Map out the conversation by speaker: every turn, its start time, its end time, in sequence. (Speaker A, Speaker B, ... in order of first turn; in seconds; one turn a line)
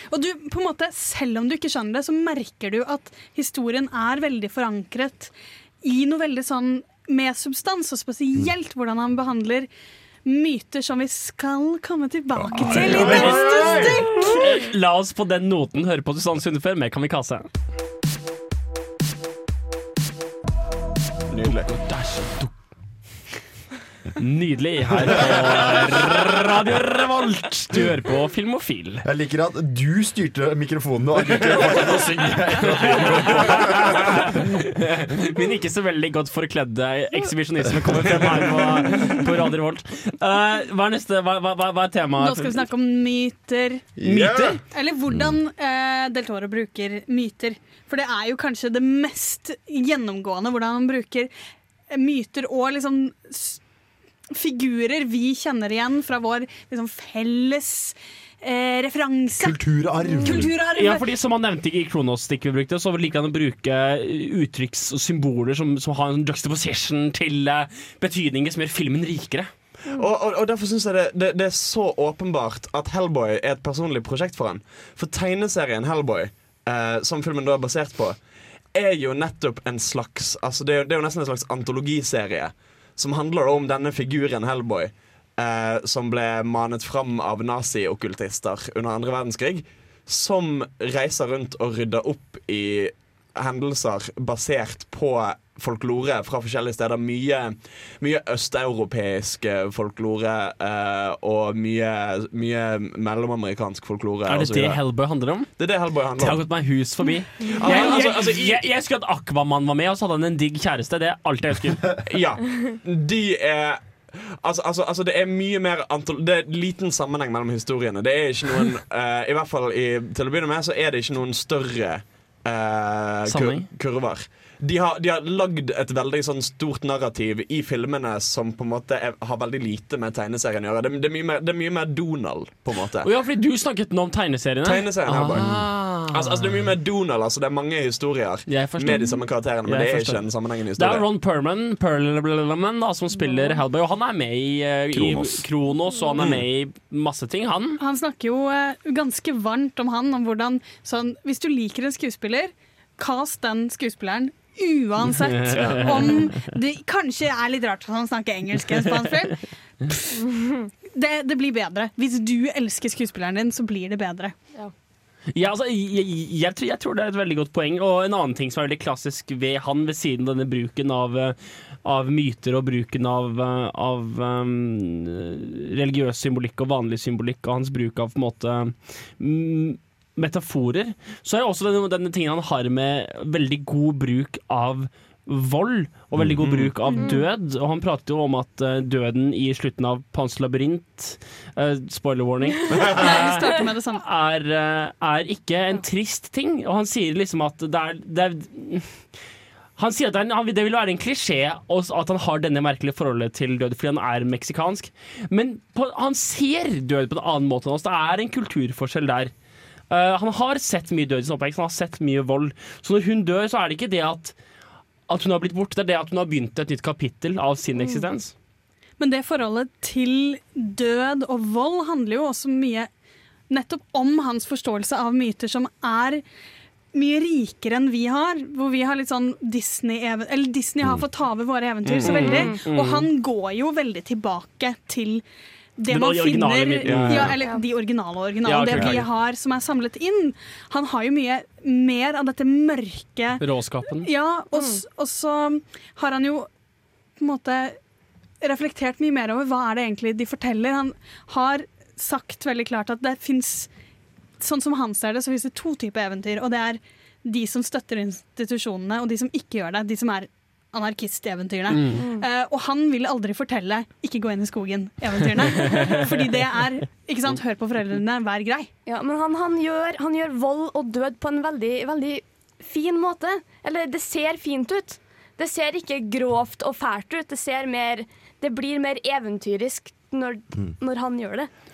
Speaker A: 0.1-9.7
Speaker A: 10.2-14.4
Speaker B: 12.4-13.3
Speaker C: 12.6-17.5
Speaker D: 12.7-13.9
Speaker D: 21.3-21.7
Speaker C: 21.7-22.5
Speaker C: 24.2-29.0
Speaker B: 24.9-25.8
Speaker B: 29.0-34.4
Speaker C: 32.6-42.6
Speaker A: 42.2-44.0
Speaker D: 44.0-44.6
Speaker C: 44.0-44.6
Speaker A: 44.7-51.3
Speaker B: 45.1-45.4
Speaker A: 51.9-53.6
Speaker A: 54.3-59.6
Speaker B: 59.4-60.5
Speaker A: 60.2-61.0
Speaker C: 60.8-69.5
Speaker D: 69.9-78.2
Speaker D: 78.7-104.8
Speaker C: 104.3-105.5
Speaker D: 105.6-106.4
Speaker C: 106.2-111.9
Speaker D: 107.5-108.6
Speaker D: 112.0-133.1
Speaker C: 123.3-123.7
Speaker C: 133.0-136.7
Speaker D: 134.6-141.1
Speaker C: 138.5-140.2
Speaker C: 140.8-147.8
Speaker B: 144.9-145.5
Speaker A: 147.8-160.2
Speaker C: 155.2-156.2
Speaker D: 155.5-156.1
Speaker A: 160.9-164.3
Speaker C: 165.3-199.1
Speaker B: 186.2-186.4
Speaker D: 186.4-186.7
Speaker E: 186.9-187.2
Speaker D: 192.7-193.2
Speaker A: 192.9-194.0
Speaker C: 199.8-209.3
Speaker C: 209.9-214.3
Speaker C: 215.1-218.3
Speaker A: 219.0-222.9
Speaker A: 223.5-226.2
Speaker A: 226.9-235.2
Speaker D: 231.8-232.5
Speaker E: 232.0-232.6
Speaker C: 232.7-233.1
Speaker A: 235.8-243.4
Speaker C: 235.9-237.4
Speaker D: 236.8-237.3
Speaker E: 237.4-237.7
Speaker C: 238.4-239.1
Speaker C: 243.4-244.1
Speaker A: 244.0-246.5
Speaker E: 244.5-244.8
Speaker A: 247.2-247.8
Speaker A: 248.4-253.7
Speaker A: 254.4-268.7
Speaker E: 261.9-262.3
Speaker E: 268.9-281.5